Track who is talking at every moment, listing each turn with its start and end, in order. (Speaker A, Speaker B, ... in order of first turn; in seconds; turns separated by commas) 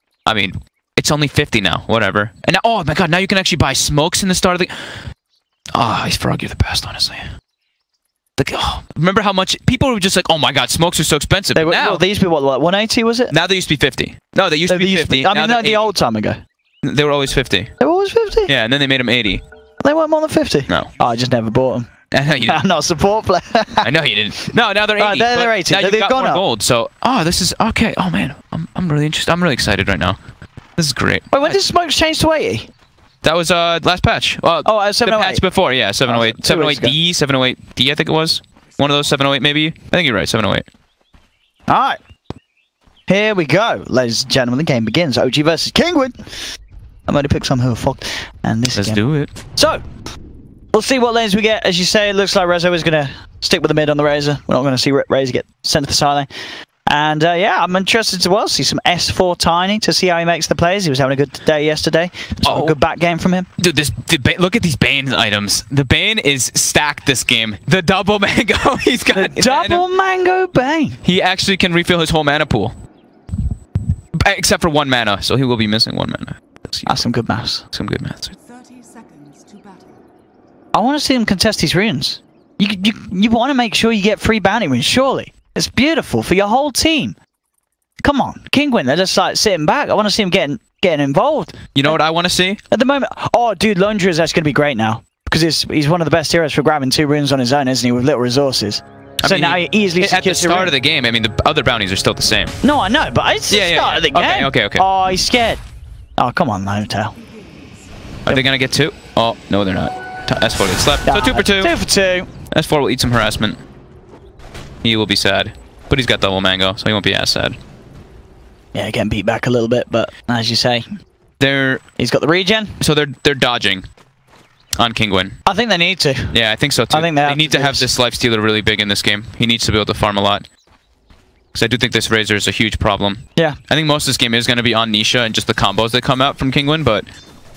Speaker A: 0.3-5.0, Speaker A: 5.7-7.3, Speaker A: 8.4-12.0, Speaker B: 11.5-13.3, Speaker A: 13.3-15.9, Speaker B: 14.7-16.4, Speaker A: 16.8-17.7, Speaker B: 17.8-18.5, Speaker A: 18.5-19.4, Speaker B: 19.8-21.9, Speaker A: 22.1-22.6, Speaker B: 22.4-23.9, Speaker A: 23.8-30.2, Speaker B: 25.0-26.4, Speaker A: 30.8-31.6, Speaker B: 31.3-32.7, Speaker A: 33.2-40.7, Speaker B: 34.6-35.4, Speaker B: 36.1-37.0, Speaker B: 41.7-42.0, Speaker B: 43.1-46.2, Speaker B: 47.1-49.0, Speaker A: 48.8-49.3, Speaker B: 49.6-49.8, Speaker B: 50.7-56.3, Speaker B: 56.9-63.5, Speaker A: 62.4-62.8, Speaker A: 63.6-69.8, Speaker B: 69.1-71.0, Speaker A: 71.0-72.7, Speaker A: 74.1-77.0, Speaker B: 76.9-77.6, Speaker A: 77.7-78.4, Speaker B: 80.7-87.2, Speaker B: 88.0-92.0, Speaker A: 91.7-92.6, Speaker B: 92.7-100.7, Speaker A: 99.2-102.6, Speaker B: 102.6-105.6, Speaker A: 103.5-104.8, Speaker B: 106.2-107.2, Speaker A: 108.3-111.7, Speaker B: 111.0-112.3, Speaker A: 112.5-113.6, Speaker A: 114.8-117.6, Speaker B: 118.7-120.8, Speaker A: 121.4-121.8, Speaker B: 122.0-122.8, Speaker A: 122.8-123.9, Speaker A: 124.8-125.4, Speaker B: 125.5-126.4, Speaker A: 126.3-130.5, Speaker B: 126.9-127.9, Speaker A: 131.5-137.1